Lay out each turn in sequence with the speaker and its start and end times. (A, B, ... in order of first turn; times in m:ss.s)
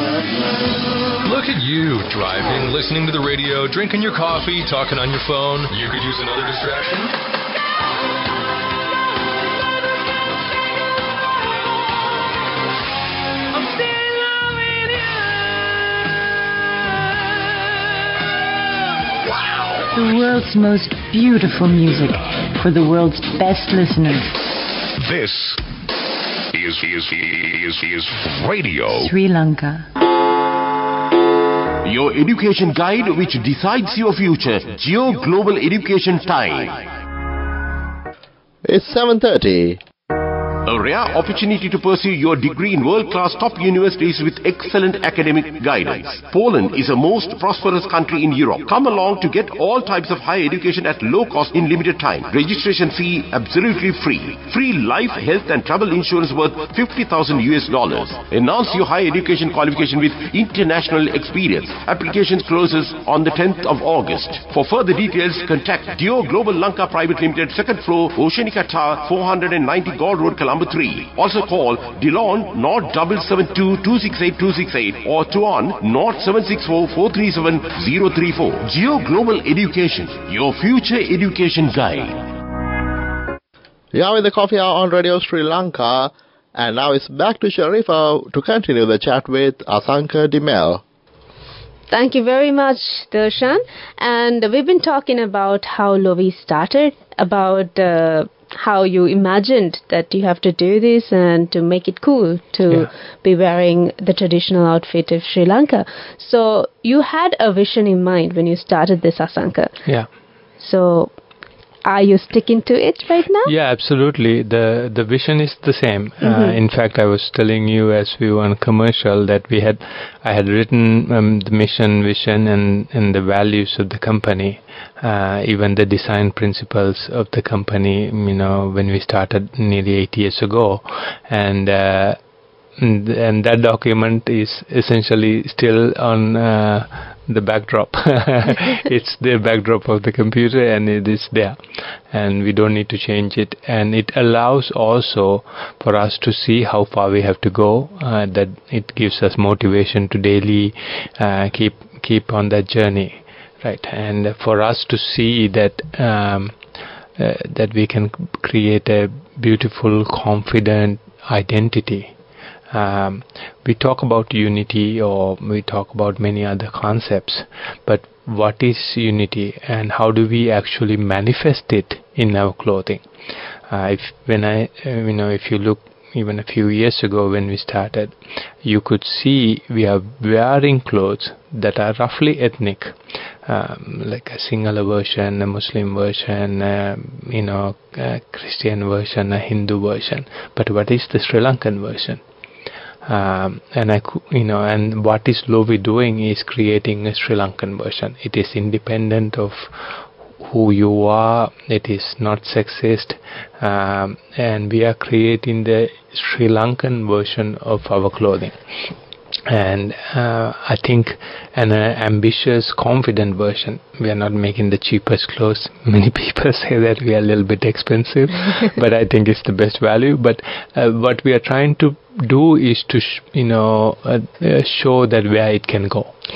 0:01.2-0:07.1 A
0:19.9-0:24.4 B
0:25.0-0:25.6 C
0:26.5-0:28.9 C
0:28.9-0:29.9 B
0:31.8-0:36.9 D
0:38.6-0:39.8 E
0:40.6-1:22.2 D
1:23.9-1:30.8 E
1:31.9-1:49.7 F
1:50.6-1:51.1 F
1:51.9-1:53.5 F
1:53.4-2:12.2 G
1:56.2-1:56.6 F
2:12.8-2:36.6 G
2:37.2-2:42.1 G
2:42.7-2:53.0 G
2:53.7-3:12.2 G
3:13.1-3:28.6 G
3:29.5-3:46.1 G